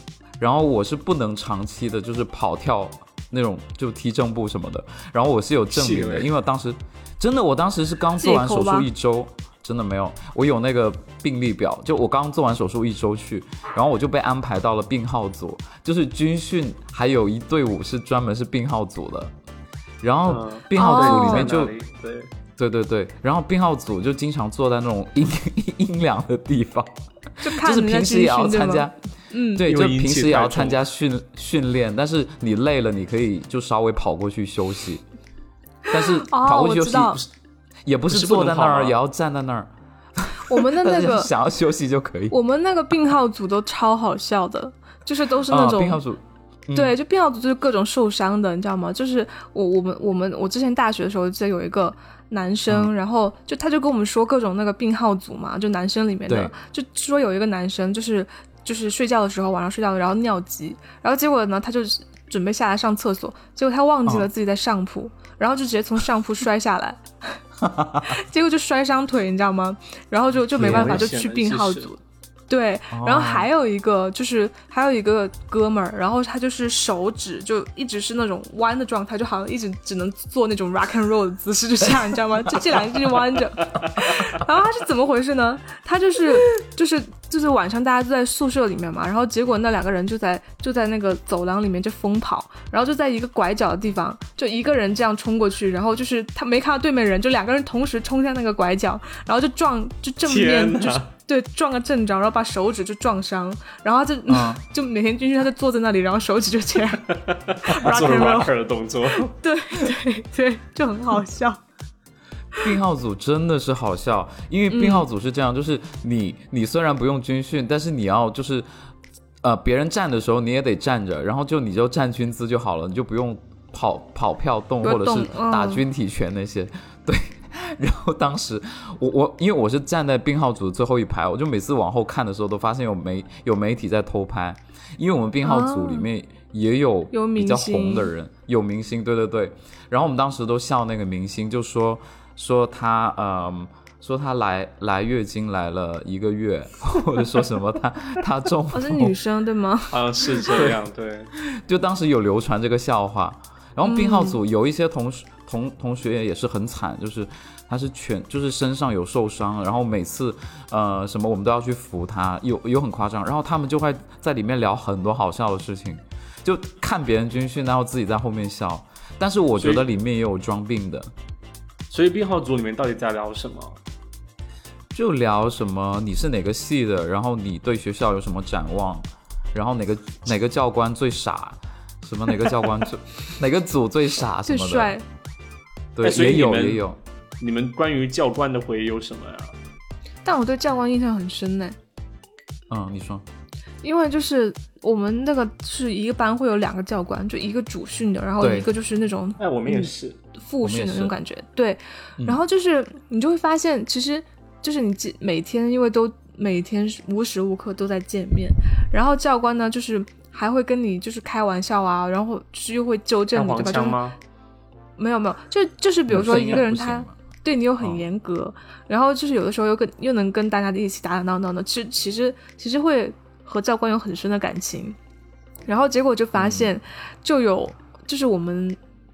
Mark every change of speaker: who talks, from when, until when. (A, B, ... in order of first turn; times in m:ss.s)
0:00.4-0:19.3 A
0:05.7-0:06.3 B
0:08.2-0:08.9 C
0:20.0-0:21.7 A
0:20.3-0:22.3 B
0:20.8-0:21.5 C
0:22.6-0:29.0 A
0:27.4-0:29.6 C
0:29.6-0:35.0 A
0:29.6-0:30.8 B
0:35.9-0:37.2 A
0:35.9-0:37.2 C
0:37.9-0:42.4 A
0:38.1-0:39.0 B
0:40.5-0:41.3 C
0:42.3-0:46.0 C
0:45.5-0:47.0 A
0:46.7-1:07.4 C
0:56.3-0:56.5 A
1:07.6-1:08.1 A
1:08.1-1:48.5 C
1:10.6-1:11.1 A
1:10.6-1:11.9 B
1:12.9-1:13.5 A
1:40.3-1:41.1 B
1:44.3-1:44.6 A
1:47.3-1:49.3 B
1:49.3-1:51.6 C
1:52.6-1:58.7 A
1:54.7-1:55.1 C
1:59.4-2:29.1 A
2:04.8-2:05.8 C
2:15.4-2:16.1 C
2:17.1-2:18.1 C
2:28.7-2:30.6 C
2:29.9-2:31.3 B
2:31.4-2:51.1 A
2:33.8-2:34.4 C
2:49.6-2:49.9 B
2:51.9-2:53.8 B
2:54.9-3:04.9 A
3:04.5-3:05.0 C
3:06.0-3:07.0 A
3:06.0-3:06.8 B
3:07.4-3:09.5 B
3:10.2-3:11.8 C
3:12.7-3:13.2 A
3:13.8-3:34.0 C
3:18.4-3:18.7 A
3:19.4-3:20.2 B
3:20.6-3:21.1 A
3:33.3-3:34.2 B
3:35.0-3:45.0 C
3:36.1-3:37.1 A
3:45.7-3:48.8 C
3:46.4-3:46.7 A